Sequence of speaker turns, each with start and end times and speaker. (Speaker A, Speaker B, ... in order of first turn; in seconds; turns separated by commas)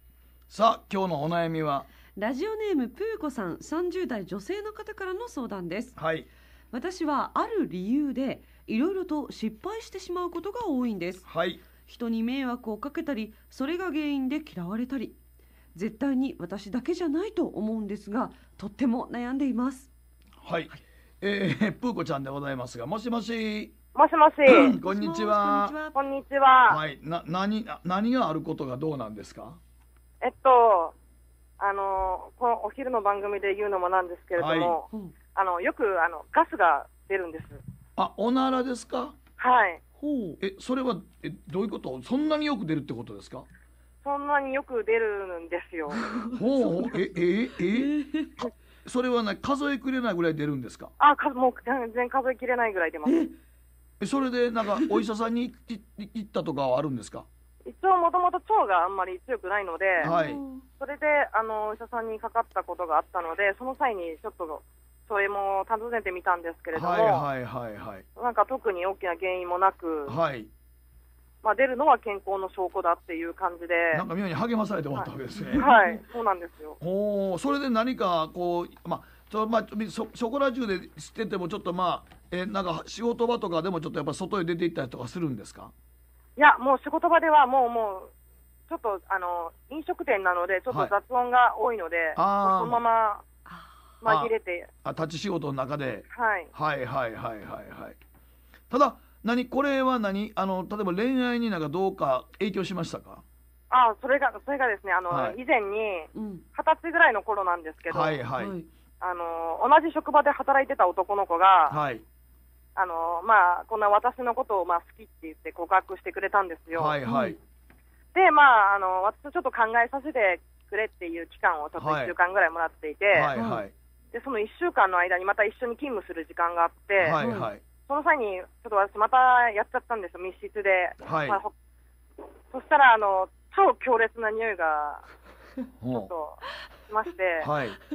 Speaker A: 0.5-1.9, Speaker B: 2.1-6.0, Speaker A: 6.0-6.3, Speaker B: 6.7-11.2, Speaker A: 11.2-11.6, Speaker B: 11.8-15.2, Speaker B: 15.7-19.9, Speaker A: 20.4-23.7, Speaker C: 23.9-24.8, Speaker A: 24.4-25.7, Speaker B: 24.8-25.9, Speaker C: 25.9-26.8, Speaker A: 26.7-29.6, Speaker C: 30.2-30.9, Speaker C: 31.6-37.6, Speaker A: 34.4-34.8, Speaker A: 38.0-39.1, Speaker C: 39.4-39.8, Speaker B: 40.0-40.4, Speaker A: 40.4-43.5, Speaker C: 44.0-46.0, Speaker B: 45.9-48.5, Speaker A: 46.3-47.9, Speaker A: 48.8-50.9, Speaker C: 51.0-53.2, Speaker B: 53.0-53.3, Speaker A: 54.0-57.2, Speaker B: 54.7-55.0, Speaker C: 57.6-60.1, Speaker A: 60.0-60.4, Speaker B: 60.0-60.6, Speaker C: 60.8-67.3, Speaker A: 66.7-68.0, Speaker C: 68.2-70.2, Speaker A: 70.1-70.5, Speaker C: 71.4-74.0, Speaker A: 73.9-75.7, Speaker C: 74.9-76.8, Speaker B: 75.3-76.0, Speaker A: 76.8-85.7, Speaker C: 86.3-88.1, Speaker C: 88.7-93.2, Speaker A: 92.2-92.8, Speaker C: 94.0-94.7, Speaker A: 94.0-94.3, Speaker A: 94.8-98.0, Speaker C: 96.1-96.5, Speaker A: 98.7-103.2, Speaker C: 103.7-108.2, Speaker A: 105.1-105.4, Speaker B: 106.1-106.4, Speaker A: 107.9-108.5, Speaker B: 108.4-108.7, Speaker C: 109.0-111.8, Speaker A: 111.7-112.0, Speaker C: 112.7-117.0, Speaker A: 116.7-117.4, Speaker B: 117.0-117.3, Speaker C: 118.1-123.3, Speaker A: 121.8-122.1, Speaker A: 123.1-123.7, Speaker B: 123.3-123.6, Speaker C: 124.1-127.2, Speaker A: 127.0-127.6, Speaker B: 127.1-127.5, Speaker C: 127.9-131.5, Speaker A: 131.0-131.4, Speaker C: 132.5-135.0, Speaker A: 135.8-136.1, Speaker C: 135.9-137.5, Speaker A: 137.4-137.8